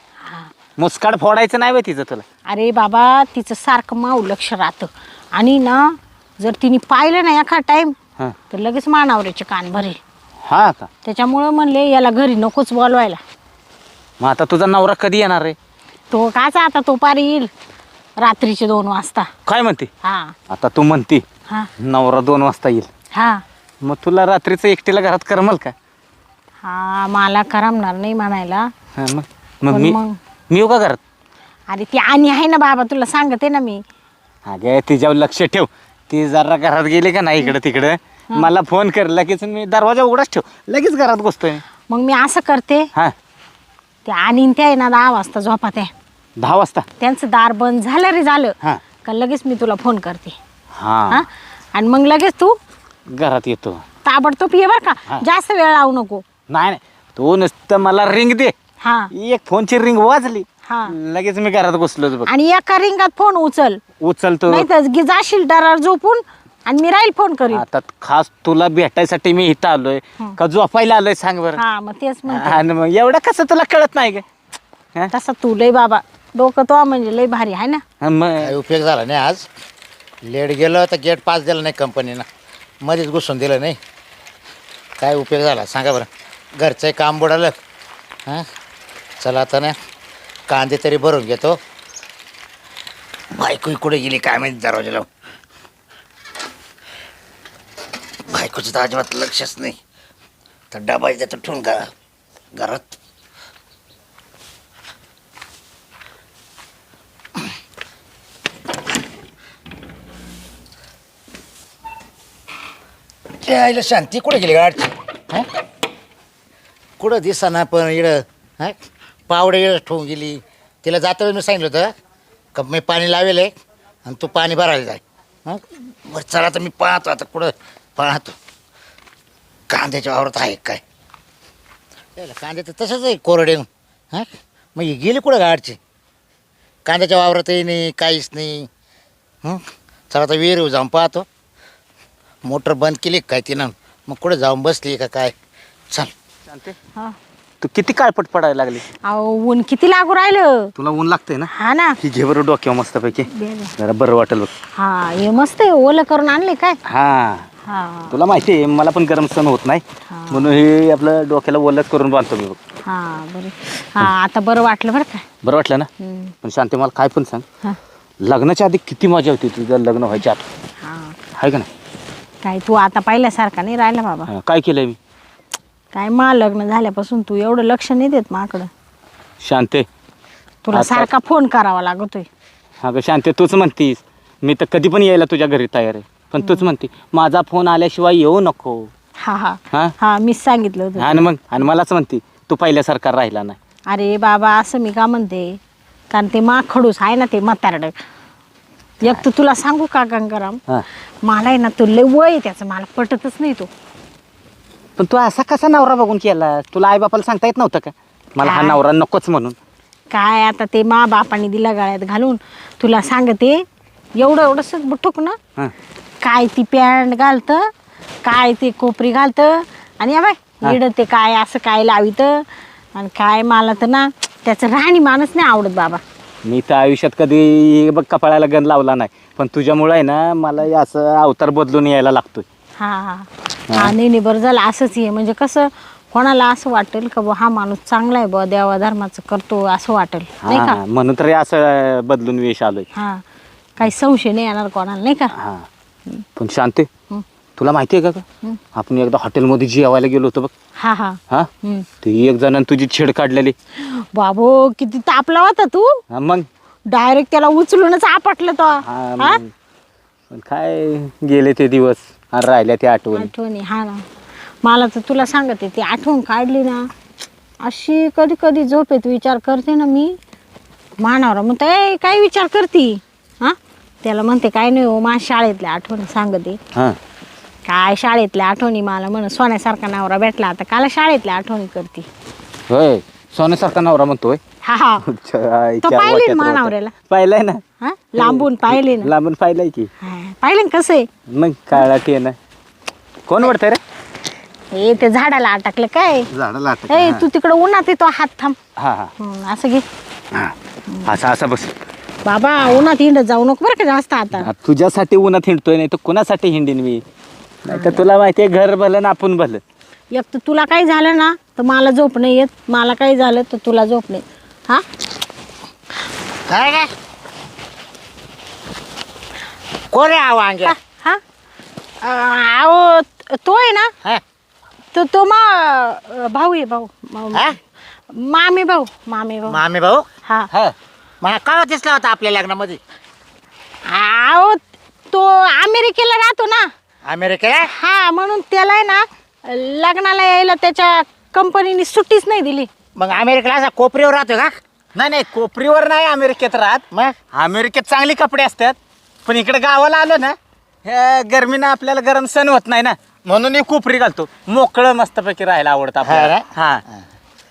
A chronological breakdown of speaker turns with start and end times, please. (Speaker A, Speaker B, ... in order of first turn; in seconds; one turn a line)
Speaker A: 0.2-0.5
Speaker B: 0.8-2.2
Speaker A: 2.5-8.0
Speaker A: 8.5-10.0
Speaker B: 10.4-10.9
Speaker A: 11.0-13.2
Speaker B: 14.2-15.6
Speaker A: 16.1-17.5
Speaker A: 18.2-19.3
Speaker B: 19.5-19.9
Speaker A: 20.0-20.4
Speaker B: 20.5-21.2
Speaker B: 21.8-22.9
Speaker A: 23.1-23.4
Speaker B: 23.8-25.7
Speaker A: 26.6-28.7
Speaker B: 29.0-30.0
Speaker A: 29.7-30.2
Speaker B: 30.5-31.0
Speaker A: 31.7-33.8
Speaker B: 34.5-41.6
Speaker A: 41.9-42.9
Speaker A: 44.1-45.9
Speaker B: 46.4-46.9
Speaker A: 47.0-50.4
Speaker B: 50.8-51.2
Speaker A: 51.1-52.6
Speaker B: 53.1-53.8
Speaker A: 54.0-56.2
Speaker B: 56.5-58.5
Speaker A: 58.8-59.1
Speaker B: 59.1-62.3
Speaker A: 60.7-60.9
Speaker A: 62.3-63.8
Speaker B: 64.0-64.7
Speaker A: 64.5-67.6
Speaker B: 67.5-71.6
Speaker A: 71.6-72.6
Speaker B: 72.3-74.2
Speaker A: 75.1-77.8
Speaker B: 78.0-78.5
Speaker C: 78.4-79.5
Speaker C: 80.2-82.3
Speaker C: 82.8-83.8
Speaker C: 85.0-87.5
Speaker C: 89.2-89.8
Speaker C: 90.5-91.6
Speaker C: 93.3-95.1
Speaker C: 98.3-99.8
Speaker C: 100.7-101.9
Speaker C: 102.5-103.0
Speaker C: 113.4-115.5
Speaker C: 117.0-118.8
Speaker C: 119.3-121.9
Speaker C: 122.5-123.5
Speaker C: 124.0-128.4
Speaker C: 129.7-130.8
Speaker C: 132.2-135.8
Speaker C: 136.9-138.7
Speaker C: 139.4-141.3
Speaker C: 142.4-145.3
Speaker B: 146.5-146.8
Speaker B: 147.6-148.8
Speaker A: 149.0-150.7
Speaker B: 150.8-154.5
Speaker A: 151.5-152.0
Speaker A: 153.3-153.7
Speaker A: 154.8-156.8
Speaker B: 156.9-157.5
Speaker A: 157.7-158.2
Speaker B: 158.1-162.6
Speaker A: 160.1-160.5
Speaker A: 162.8-165.3
Speaker B: 165.4-165.9
Speaker A: 166.0-166.3
Speaker B: 166.4-167.4
Speaker B: 168.2-170.4
Speaker A: 170.8-171.2
Speaker B: 171.4-171.7
Speaker A: 172.4-174.3
Speaker B: 174.3-175.0
Speaker A: 175.9-178.7
Speaker B: 179.4-179.9
Speaker A: 180.7-182.3
Speaker B: 180.7-181.1
Speaker B: 182.8-188.9
Speaker A: 186.4-186.7
Speaker A: 189.2-191.3
Speaker B: 191.0-193.6
Speaker A: 193.9-195.6
Speaker A: 196.1-197.9
Speaker A: 199.0-200.6
Speaker A: 201.2-203.7
Speaker B: 205.0-209.6
Speaker A: 208.4-208.8
Speaker A: 210.1-213.6
Speaker A: 214.2-215.4
Speaker A: 216.2-217.7
Speaker A: 218.2-226.0
Speaker B: 226.4-232.4
Speaker A: 232.8-240.8
Speaker B: 240.4-242.9
Speaker A: 242.9-243.2
Speaker A: 243.8-245.3
Speaker B: 245.3-245.7
Speaker B: 246.4-246.9
Speaker B: 247.6-250.5
Speaker A: 250.8-251.9
Speaker B: 252.0-253.6
Speaker A: 253.8-256.0
Speaker B: 256.1-256.5
Speaker A: 256.9-259.4
Speaker B: 258.8-259.5
Speaker B: 260.3-263.3
Speaker A: 263.1-264.0
Speaker A: 264.6-266.9
Speaker A: 267.6-270.2
Speaker A: 271.0-276.6
Speaker A: 277.7-282.1
Speaker B: 282.7-284.4
Speaker A: 284.6-285.0
Speaker B: 285.0-287.6
Speaker A: 285.8-286.9
Speaker A: 287.8-289.1
Speaker B: 288.2-289.9
Speaker A: 290.0-291.1
Speaker B: 291.3-292.4
Speaker B: 293.3-293.8
Speaker A: 294.7-296.3
Speaker B: 296.3-297.3
Speaker A: 296.9-298.6
Speaker B: 298.8-299.1
Speaker A: 299.2-299.9
Speaker B: 300.3-301.7
Speaker A: 302.2-304.5
Speaker B: 304.4-307.0
Speaker B: 307.6-309.6
Speaker A: 307.7-308.0
Speaker A: 310.1-314.9
Speaker C: 316.5-316.9
Speaker C: 319.9-320.8
Speaker A: 320.6-321.2
Speaker A: 322.0-323.9
Speaker A: 324.9-327.6
Speaker A: 328.1-329.6
Speaker C: 329.5-330.1
Speaker C: 331.2-332.8
Speaker A: 333.9-336.7
Speaker C: 337.1-337.7
Speaker A: 337.7-342.7
Speaker C: 343.0-344.6
Speaker B: 344.9-356.8
Speaker C: 356.0-357.0